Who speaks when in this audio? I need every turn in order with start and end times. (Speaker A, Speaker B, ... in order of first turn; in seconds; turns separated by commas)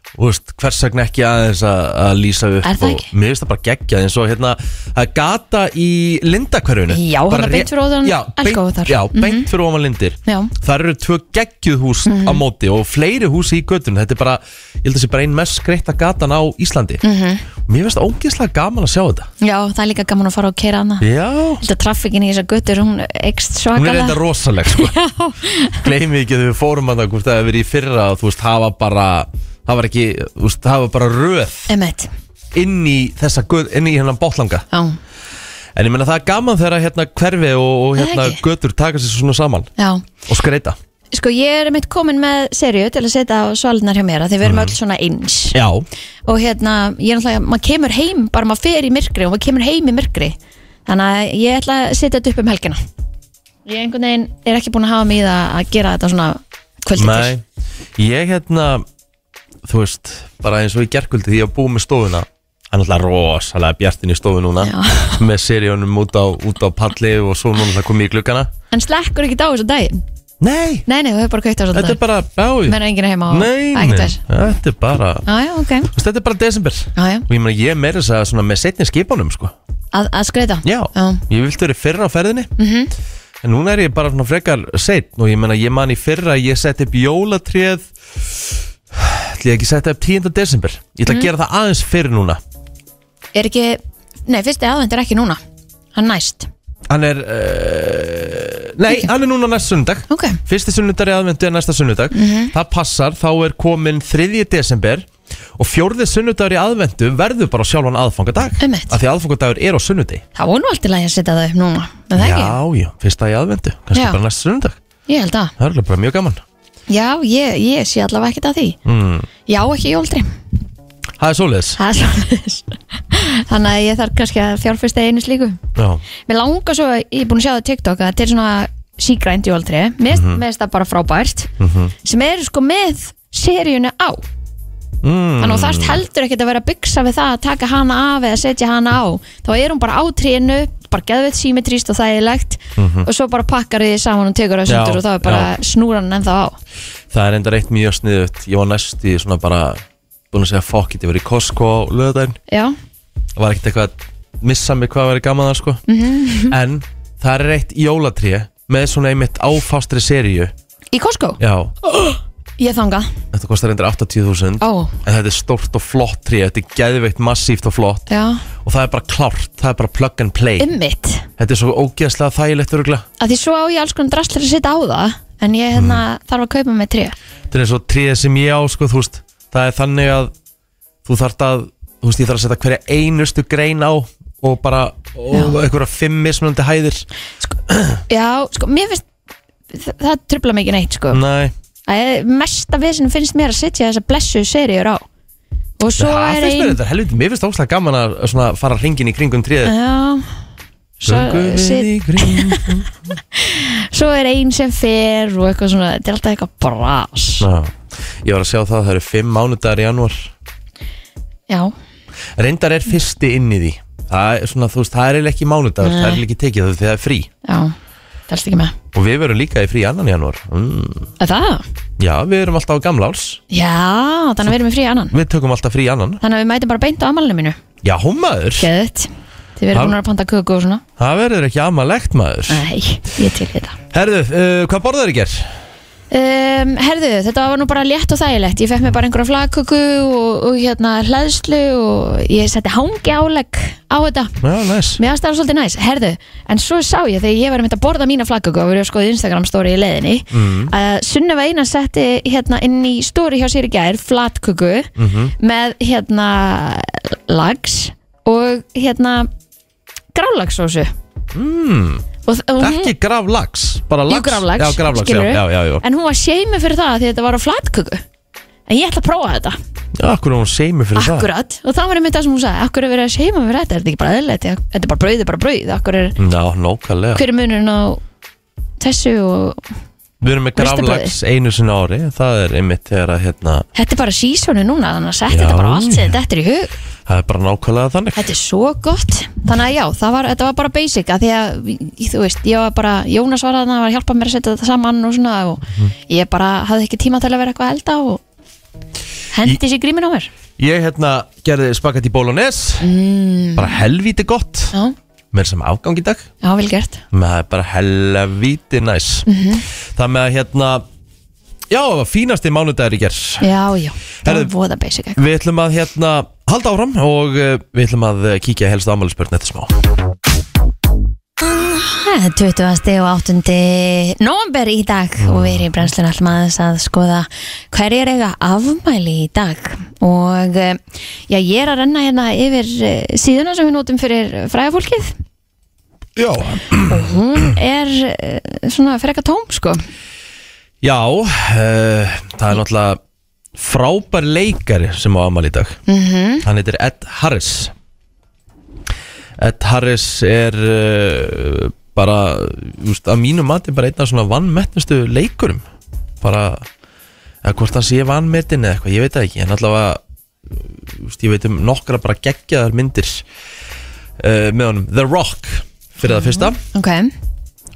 Speaker A: 0.1-17.0, Speaker B: 2.6-3.1, Speaker B: 6.9-9.5, Speaker B: 10.2-10.5, Speaker B: 12.1-12.4, Speaker B: 17.0-17.4, Speaker A: 17.6-19.3, Speaker B: 19.4-21.1, Speaker A: 21.0-21.6, Speaker B: 21.6-24.2, Speaker A: 23.7-24.9, Speaker B: 24.7-25.8, Speaker A: 25.7-31.7, Speaker B: 31.7-32.1, Speaker A: 32.5-34.6, Speaker B: 34.7-35.0, Speaker A: 35.7-39.7, Speaker B: 38.0-38.4, Speaker B: 39.8-40.0, Speaker A: 40.3-40.8, Speaker B: 41.1-45.6, Speaker A: 44.4-44.7, Speaker A: 45.5-45.9, Speaker B: 46.3-52.8, Speaker B: 53.6-57.3, Speaker A: 57.0-57.4, Speaker A: 58.0-58.9, Speaker A: 59.6-68.5, Speaker B: 64.6-65.2, Speaker B: 68.7-70.0, Speaker A: 70.4-70.8, Speaker B: 70.8-72.0, Speaker A: 71.7-72.8, Speaker B: 72.6-74.2, Speaker A: 73.3-75.2, Speaker B: 75.2-75.9, Speaker A: 75.9-79.5, Speaker B: 77.0-77.2, Speaker B: 79.9-81.2, Speaker A: 80.6-82.5, Speaker B: 82.6-82.9, Speaker A: 83.4-92.4, Speaker B: 93.3-95.4, Speaker B: 95.9-96.5, Speaker A: 96.9-110.2, Speaker B: 100.1-100.4, Speaker B: 102.1-102.5, Speaker B: 108.6-108.9, Speaker B: 110.3-112.5, Speaker A: 112.2-114.8, Speaker B: 113.9-114.2, Speaker B: 115.1-115.5, Speaker A: 115.6-116.4, Speaker B: 116.9-118.8, Speaker A: 118.8-119.3, Speaker B: 119.5-120.3, Speaker A: 121.2-121.8, Speaker B: 121.8-125.6, Speaker A: 125.7-126.0, Speaker B: 126.2-131.5, Speaker A: 130.1-130.4, Speaker A: 131.6-131.9, Speaker B: 132.0-134.2, Speaker A: 135.0-136.0, Speaker B: 135.4-146.6, Speaker A: 142.8-143.1, Speaker A: 144.7-145.5, Speaker A: 147.1-152.4, Speaker B: 152.5-152.8, Speaker A: 153.3-155.8, Speaker B: 155.9-156.5, Speaker A: 156.5-160.5, Speaker B: 160.9-163.2, Speaker A: 161.4-161.7, Speaker A: 163.3-168.0, Speaker B: 164.6-164.9, Speaker B: 168.1-168.4, Speaker A: 168.6-170.7, Speaker B: 170.6-171.3, Speaker A: 171.4-173.1, Speaker B: 173.2-177.2, Speaker A: 175.7-176.0, Speaker A: 177.5-180.3, Speaker A: 181.0-187.1, Speaker B: 185.3-185.6, Speaker A: 187.7-188.0, Speaker B: 188.1-189.1, Speaker B: 189.7-191.2, Speaker A: 191.1-191.5, Speaker B: 191.9-195.1, Speaker B: 195.8-196.8, Speaker A: 196.0-199.7, Speaker B: 199.6-200.4, Speaker B: 201.0-202.7, Speaker A: 201.0-202.9, Speaker B: 203.3-207.5, Speaker A: 207.4-210.3, Speaker A: 212.3-217.3, Speaker B: 215.8-216.2, Speaker B: 217.4-217.8, Speaker B: 218.3-218.7, Speaker A: 218.9-221.1, Speaker B: 221.2-221.6, Speaker A: 222.0-223.4, Speaker B: 223.5-225.1, Speaker A: 225.1-226.2, Speaker B: 226.2-227.6, Speaker A: 227.8-228.7, Speaker B: 228.6-230.8, Speaker A: 231.0-232.6, Speaker B: 232.5-233.8, Speaker A: 233.9-235.6, Speaker B: 236.1-244.4, Speaker A: 244.4-245.0, Speaker B: 245.0-259.3, Speaker A: 250.3-250.7, Speaker A: 255.0-255.3, Speaker B: 260.1-260.9, Speaker A: 261.3-262.0, Speaker B: 262.2-262.9, Speaker A: 262.6-265.8, Speaker B: 264.1-268.0, Speaker B: 268.7-269.6, Speaker A: 269.9-271.3, Speaker B: 270.9-276.1, Speaker A: 276.2-277.2, Speaker B: 277.1-278.0, Speaker B: 278.8-279.6, Speaker A: 280.2-283.6, Speaker B: 280.6-281.1, Speaker B: 283.7-286.7, Speaker A: 285.3-286.1, Speaker A: 287.1-288.3, Speaker B: 288.1-298.2, Speaker B: 299.3-300.3, Speaker A: 300.6-302.9, Speaker B: 302.8-303.8, Speaker A: 303.6-304.7, Speaker A: 305.3-306.3, Speaker B: 306.4-307.0, Speaker A: 307.1-309.2, Speaker B: 309.3-309.6, Speaker A: 309.9-310.8, Speaker A: 311.7-313.5, Speaker B: 313.4-315.2, Speaker A: 314.2-314.5, Speaker A: 315.1-319.7, Speaker B: 321.5-335.1, Speaker A: 325.2-325.6, Speaker A: 336.1-337.1, Speaker B: 336.9-339.8, Speaker A: 340.8-343.0, Speaker A: 343.6-345.8, Speaker B: 345.9-346.4, Speaker A: 346.4-347.7, Speaker A: 349.4-355.6, Speaker A: 356.2-356.7, Speaker A: 357.4-363.2, Speaker A: 364.2-366.6, Speaker B: 366.0-367.1